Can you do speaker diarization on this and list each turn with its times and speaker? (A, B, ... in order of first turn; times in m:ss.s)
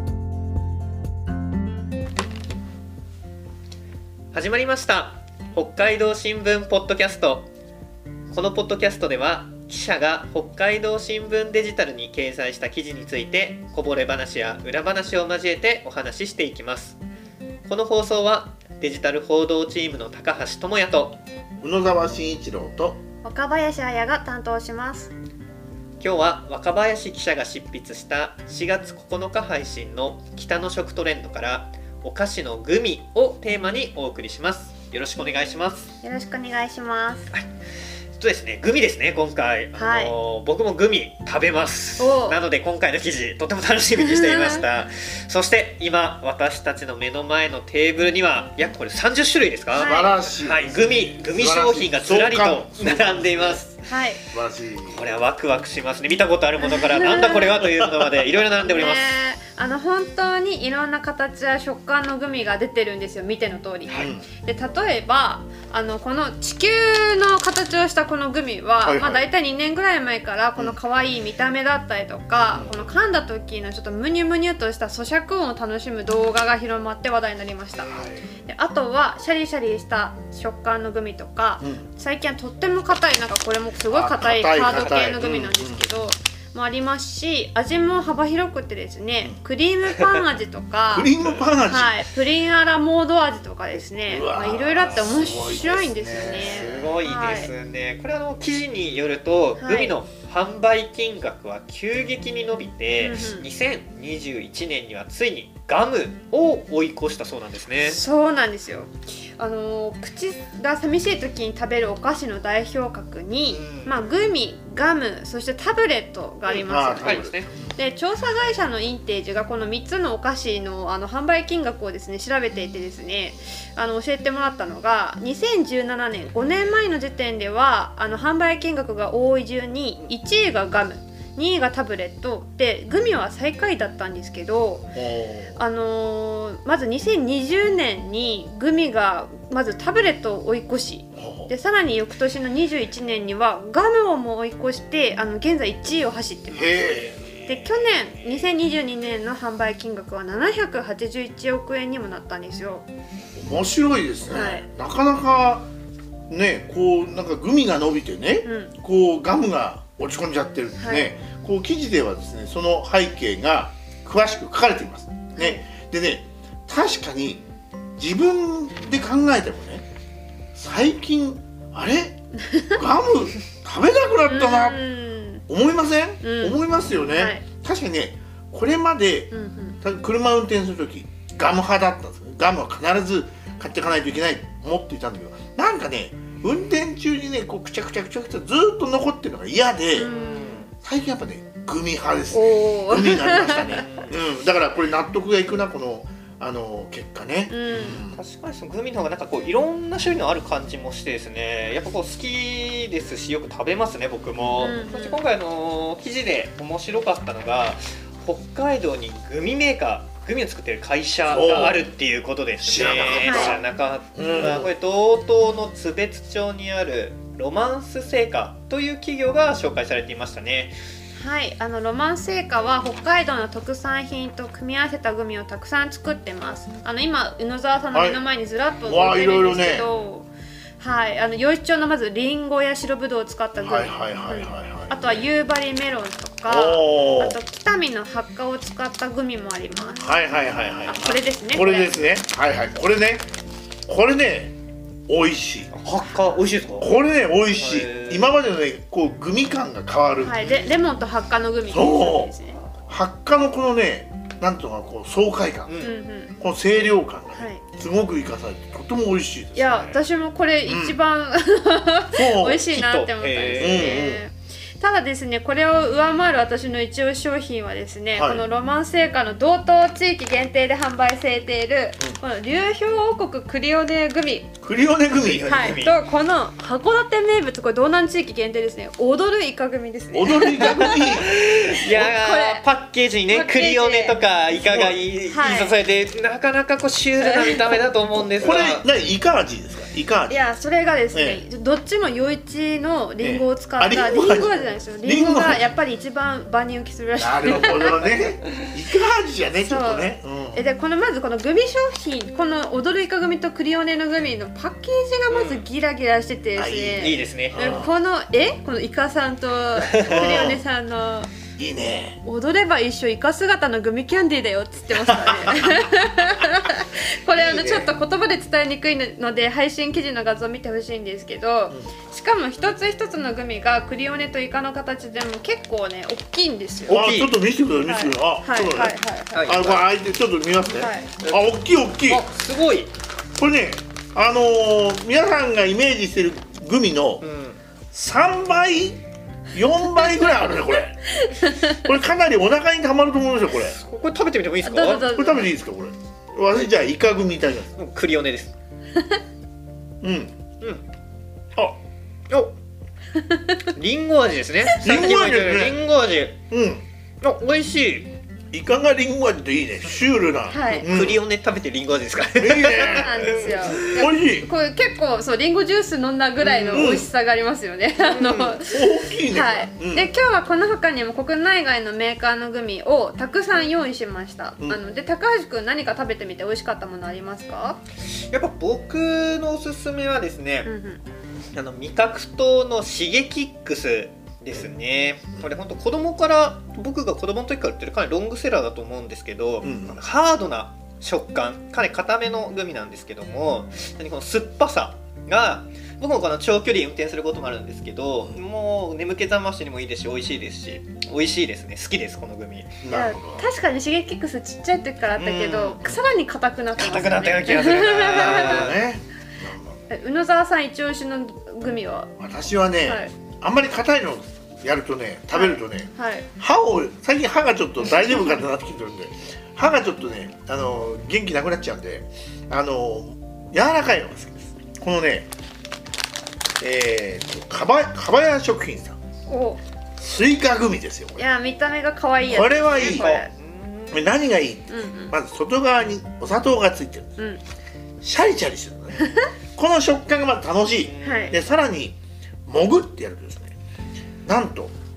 0:04.3-0:07.5 A
0:08.3-0:17.0 A
0:17.7-0:21.2 A
0:21.6-0:23.0 B
0:23.2-0:25.1 C
0:26.0-0:35.9 A
0:36.0-0:37.3 C
0:38.2-0:53.8 A
0:39.8-0:40.1 C
0:42.0-0:42.4 C
0:44.0-0:44.6 C
0:49.7-0:50.3 C
0:49.8-0:53.6 B
0:53.8-0:54.2 C
0:54.3-0:55.0 B
0:54.8-0:59.2 A
0:56.6-0:57.6 C
0:57.6-0:58.1 B
0:58.6-1:17.9 C
1:03.9-1:04.2 B
1:08.8-1:09.3 B
1:17.9-1:18.2 B
1:18.4-1:37.5 C
1:23.9-1:25.8 B
1:30.9-1:32.0 B
1:34.0-1:37.0 B
1:36.2-1:48.0 A
1:39.6-1:40.0 C
1:43.0-1:43.5 C
1:47.8-2:14.9 C
1:53.5-1:53.9 A
1:56.5-1:57.7 B
1:57.0-1:57.5 A
2:14.9-2:15.6 B
2:15.6-2:32.9 C
2:21.1-2:21.5 B
2:26.5-2:28.0 B
2:33.4-2:35.7 B
2:34.3-2:34.6 C
2:36.3-2:47.4 B
2:38.4-2:38.7 C
2:40.8-2:41.1 C
2:45.4-2:45.6 C
2:48.0-2:49.8 B
2:50.5-2:54.8 B
2:52.5-2:52.8 C
2:54.3-2:55.4 C
2:55.5-3:10.1 B
2:56.2-2:56.6 C
2:57.1-2:57.4 C
2:59.3-2:59.8 C
3:09.9-3:10.7 C
3:10.0-3:10.7 A
3:10.8-3:18.2 B
3:12.3-3:13.8 C
3:13.8-3:14.1 A
3:17.5-3:18.0 C
3:18.0-3:40.8 A
3:24.6-3:25.2 C
3:31.3-3:31.8 B
3:32.6-3:33.6 B
3:33.1-3:33.6 C
3:34.1-3:34.7 B
3:41.1-4:00.1 C
3:47.9-3:48.2 B
3:48.8-3:49.9 B
3:53.6-3:55.0 B
3:56.5-3:57.4 B
4:00.0-4:03.3 B
4:00.8-4:02.0 C
4:03.9-4:04.6 B
4:05.1-4:05.7 B
4:05.7-4:06.9 A
4:06.8-4:10.4 B
4:07.5-4:08.4 A
4:10.2-4:12.6 C
4:10.4-4:10.7 A
4:11.7-4:12.3 B
4:12.9-4:19.9 B
4:15.7-4:15.9 A
4:15.8-4:16.3 C
4:17.3-4:17.6 C
4:19.5-4:34.5 C
4:19.7-4:20.0 A
4:20.6-4:21.0 B
4:22.1-4:22.7 B
4:22.6-4:24.1 A
4:23.6-4:24.2 B
4:28.1-4:28.4 B
4:34.6-4:35.5 B
4:35.1-4:36.0 A
4:35.4-4:41.2 C
4:40.1-4:41.4 B
4:40.6-4:48.8 A
4:41.9-4:42.6 C
4:43.3-4:44.2 C
4:44.6-4:45.0 B
4:45.3-4:45.8 C
4:47.2-4:47.8 C
4:48.2-4:50.4 B
4:50.3-4:58.1 C
4:51.1-4:51.4 B
4:53.2-4:55.6 B
4:57.2-5:00.6 B
4:59.6-5:11.3 C
5:05.3-5:05.7 A
5:06.6-5:07.9 B
5:07.0-5:07.8 A
5:09.9-5:10.5 A
5:10.0-5:10.6 B
5:11.6-5:12.2 B
5:12.2-5:27.1 C
5:17.4-5:17.9 A
5:26.9-5:32.2 B
5:26.9-5:27.3 A
5:27.8-5:29.6 C
5:29.3-5:29.9 A
5:30.7-5:31.1 C
5:31.2-5:32.9 A
5:33.4-5:37.2 B
5:37.2-5:37.6 A
5:37.9-5:43.7 B
5:40.1-5:41.8 C
5:43.5-5:45.2 A
5:44.6-5:45.5 C
5:44.9-5:47.7 B
5:47.8-5:48.5 A
5:50.0-5:50.4 B
5:53.1-5:53.6 C
5:53.7-5:56.4 A
5:54.8-5:55.8 B
5:56.5-5:56.8 B
5:57.2-5:58.1 A
5:58.5-6:01.2 B
6:00.5-6:00.9 C
6:00.7-6:04.0 A
6:02.4-6:04.5 B
6:02.9-6:17.8 C
6:06.4-6:07.0 A
6:06.7-6:07.1 B
6:08.0-6:08.6 A
6:08.6-6:10.1 B
6:18.1-6:20.7 A
6:20.6-6:21.0 C
6:21.5-6:42.7 A
6:29.6-6:30.0 B
6:42.8-6:43.5 B
6:42.9-6:48.7 C
6:45.2-6:45.8 A
6:46.8-6:48.8 A
6:48.0-6:49.8 B
6:49.9-6:52.1 C
6:52.2-7:05.3 B
6:52.8-6:53.1 C
6:55.3-6:56.2 C
7:06.6-7:09.0 B
7:09.3-7:09.6 C
7:10.0-7:11.2 B
7:11.2-7:13.3 C
7:12.2-7:13.2 B
7:12.7-7:14.1 A
7:13.9-7:17.1 B
7:14.7-7:15.1 C
7:18.0-7:23.5 B
7:19.0-7:19.3 C
7:20.7-7:21.4 A
7:21.0-7:21.4 C
7:24.2-7:24.7 B